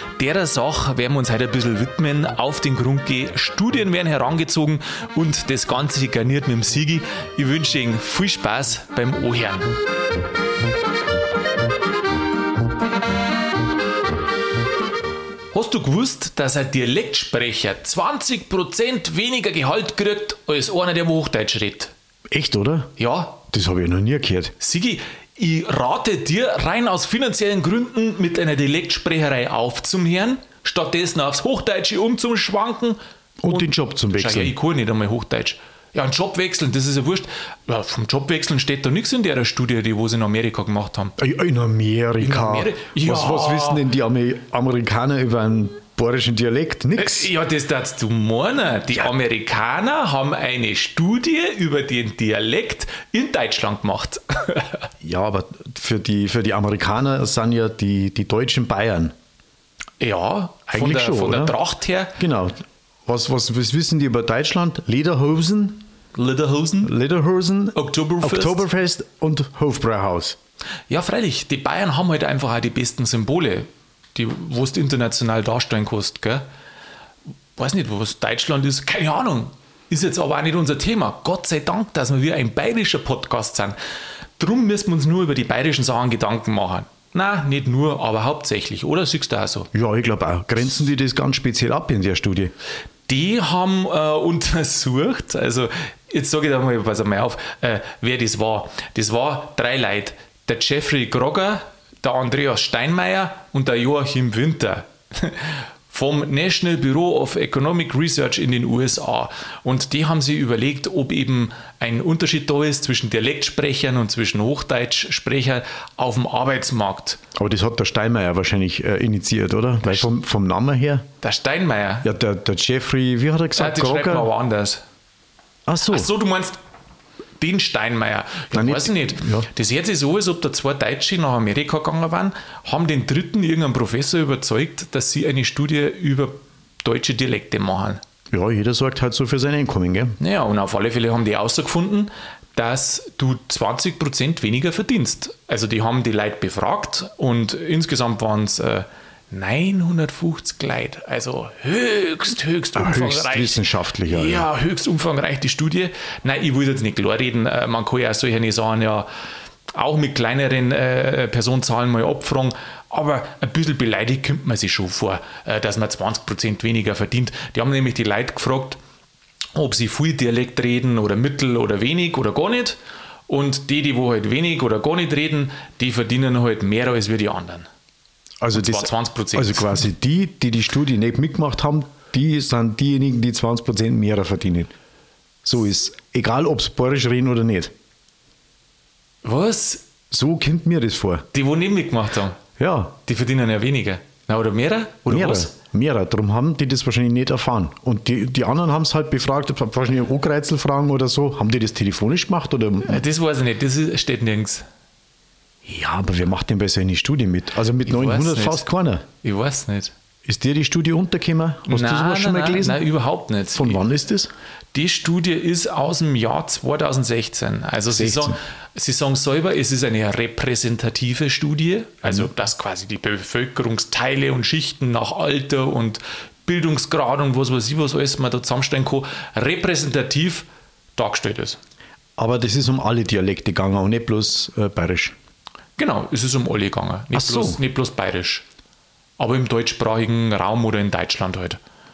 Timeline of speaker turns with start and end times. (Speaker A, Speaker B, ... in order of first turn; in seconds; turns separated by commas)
Speaker A: 0.2-9.7, Speaker A: 15.5-21.9, Speaker B: 22.3-22.9, Speaker A: 23.0-23.4, Speaker B: 23.4-24.6, Speaker A: 24.6-33.0, Speaker B: 33.4-34.5, Speaker A: 33.5-41.1, Speaker B: 41.2-47.3, Speaker A: 42.2-43.8, Speaker A: 47.0-54.9, Speaker B: 55.0-59.1, Speaker A: 60.0-62.2, Speaker B: 60.7-61.6, Speaker B: 62.2-65.9, Speaker A: 66.2-66.9, Speaker B: 66.8-70.4, Speaker A: 67.8-68.6, Speaker A: 70.9-76.5, Speaker A: 77.6-83.8, Speaker A: 84.4-89.7, Speaker B: 89.7-92.5, Speaker A: 93.1-117.2, Speaker B: 117.4-121.1, Speaker A: 121.2-122.1, Speaker B: 122.0-124.3, Speaker A: 123.6-124.8, Speaker B: 125.7-126.1, Speaker A: 125.9-126.6, Speaker A: 127.4-138.0, Speaker B: 128.5-129.5, Speaker B: 138.3-140.2, Speaker A: 140.2-159.1, Speaker B: 152.8-154.5, Speaker A: 159.7-168.8, Speaker A: 169.6-172.8, Speaker A: 173.3-177.7, Speaker B: 178.4-184.7, Speaker A: 178.5-179.9, Speaker B: 185.4-187.7, Speaker A: 189.2-189.8, Speaker B: 190.1-191.3, Speaker A: 191.3-192.4, Speaker B: 192.6-192.9, Speaker A: 193.1-195.5, Speaker B: 195.1-203.0, Speaker A: 202.8-204.7, Speaker B: 205.7-209.1, Speaker A: 207.8-208.7, Speaker A: 209.2-209.9, Speaker B: 210.2-212.8, Speaker A: 211.7-213.8, Speaker B: 213.6-214.3, Speaker A: 214.7-231.6, Speaker B: 218.0-218.4, Speaker B: 232.2-235.2, Speaker A: 235.8-238.4, Speaker B: 237.1-237.6, Speaker A: 239.2-241.6